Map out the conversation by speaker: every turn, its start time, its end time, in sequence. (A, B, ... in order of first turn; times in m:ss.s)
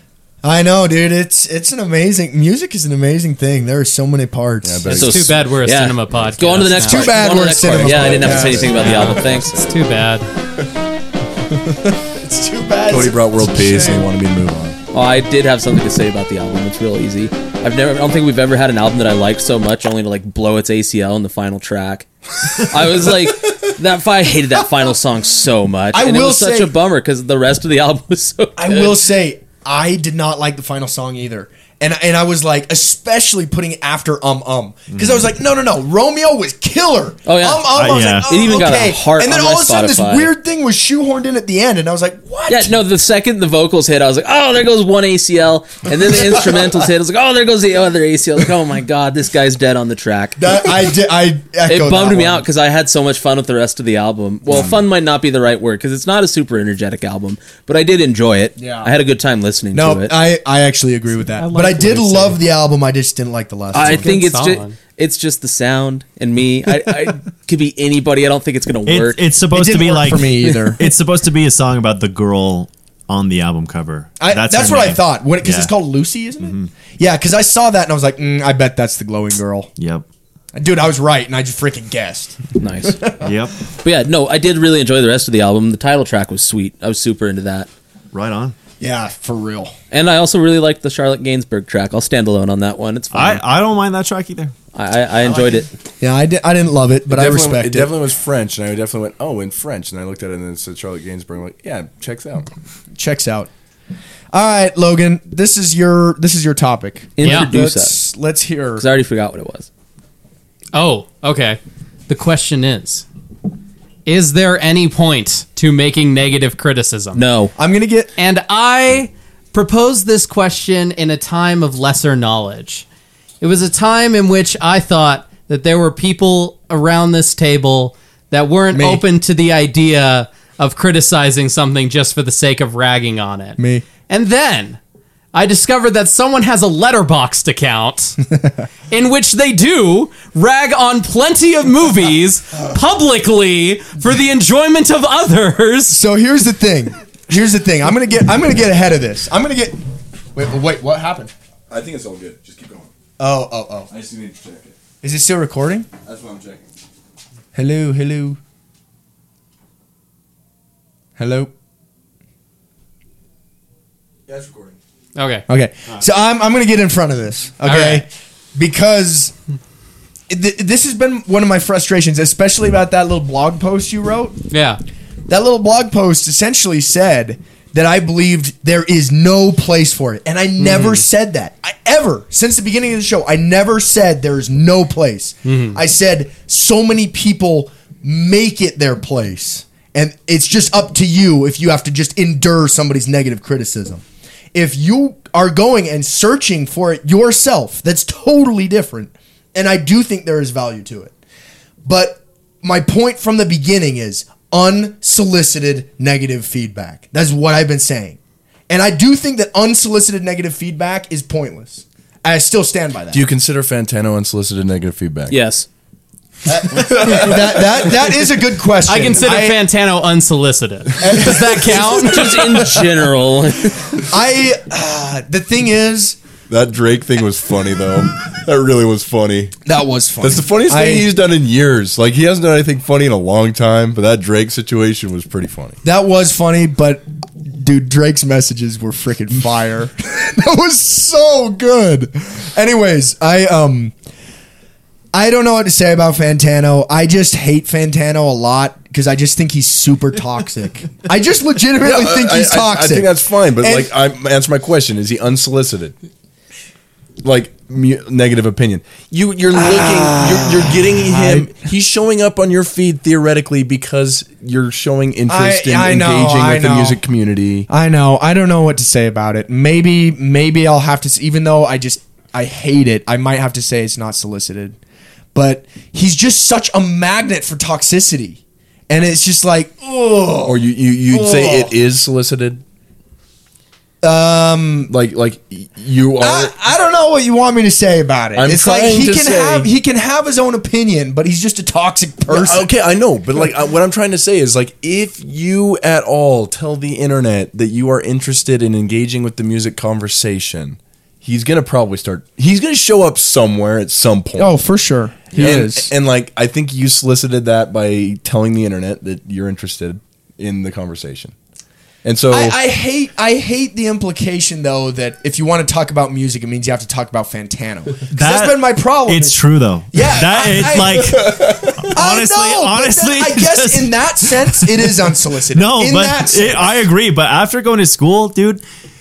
0:00.4-0:05.1 A
0:04.6-0:05.4 B
0:04.9-0:07.2 C
0:04.9-0:09.6 D
0:06.8-0:08.9 A
0:07.6-0:09.8 B
0:08.7-0:10.3 C
0:11.5-0:14.1 A
0:12.9-0:14.8 B
0:14.9-0:29.0 D
0:25.9-0:26.8 A
0:28.6-0:42.8 A
0:34.9-0:35.3 E
0:37.3-0:37.7 D
0:37.7-0:38.4 E
0:38.2-0:40.3 D
0:42.5-0:50.7 D
0:46.3-0:46.6 A
0:50.4-0:52.4 A
0:51.7-1:00.2 D
0:58.6-0:58.9 A
0:59.7-1:04.2 A
1:01.4-1:02.4 C
1:03.7-1:09.2 D
1:03.8-1:04.8 C
1:08.9-1:15.7 E
1:09.5-1:10.8 A
1:14.2-1:19.7 A
1:16.4-1:16.7 E
1:19.8-1:20.0 E
1:20.5-1:23.3 A
1:22.6-1:23.1 D
1:23.2-1:23.6 E
1:23.8-1:27.7 D
1:28.1-1:28.6 E
1:28.8-1:29.7 A
1:29.9-1:33.4 D
1:33.1-1:34.5 E
1:34.7-1:35.7 D
1:36.0-1:37.9 A
1:37.1-1:42.5 B
1:43.0-1:43.5 A
1:44.3-1:48.8 A
1:47.2-1:48.0 D
1:47.2-1:47.5 C
1:48.8-1:49.7 D
1:50.7-1:53.1 C
1:54.1-1:57.2 C
1:57.1-1:57.5 D
1:57.6-1:58.1 A
1:58.2-2:02.8 C
2:03.4-2:14.8 C
2:08.7-2:09.0 A
2:13.6-2:13.9 A
2:15.3-2:18.2 C
2:18.9-2:26.0 C
2:25.9-2:31.3 A
2:31.7-2:32.9 B
2:33.2-2:33.9 A
2:33.9-2:34.8 B
2:35.0-2:35.9 A
2:36.0-2:36.6 B
2:37.5-2:38.4 A
2:41.2-2:41.5 A
2:44.3-2:44.8 B
2:45.2-2:45.4 C
2:45.5-2:49.4 A
2:47.7-2:48.0 C
2:50.3-2:54.4 A
2:54.5-2:54.8 C
2:55.3-3:14.0 A
3:00.6-3:01.0 C
3:05.4-3:05.8 C
3:14.5-3:21.1 A
3:21.8-3:28.2 A
3:28.7-3:33.2 A
3:33.1-3:35.4 B
3:35.3-3:35.7 D
3:36.4-3:39.6 A
3:36.8-3:37.6 B
3:38.9-3:42.7 C
3:41.0-3:42.0 A
3:42.0-3:43.9 D
3:44.0-3:46.2 A
3:46.5-3:49.5 B
3:49.6-3:51.1 A
3:50.2-3:55.8 B
3:55.8-4:04.0 A
4:05.1-4:13.9 A
4:11.8-4:16.0 B
4:17.2-4:27.7 B
4:19.5-4:21.6 A
4:25.3-4:27.0 A
4:27.7-4:34.8 A
4:35.3-4:41.8 A
4:40.4-4:42.6 B
4:44.0-4:44.9 A
4:44.9-4:46.5 B
4:46.2-4:52.7 A
4:48.4-4:49.7 B
4:52.3-5:04.5 B
5:04.4-5:05.9 A
5:05.3-5:11.3 B
5:12.0-5:12.6 B
5:12.3-5:19.4 A
5:18.1-5:25.0 E
5:19.9-5:26.8 A
5:25.5-5:28.6 E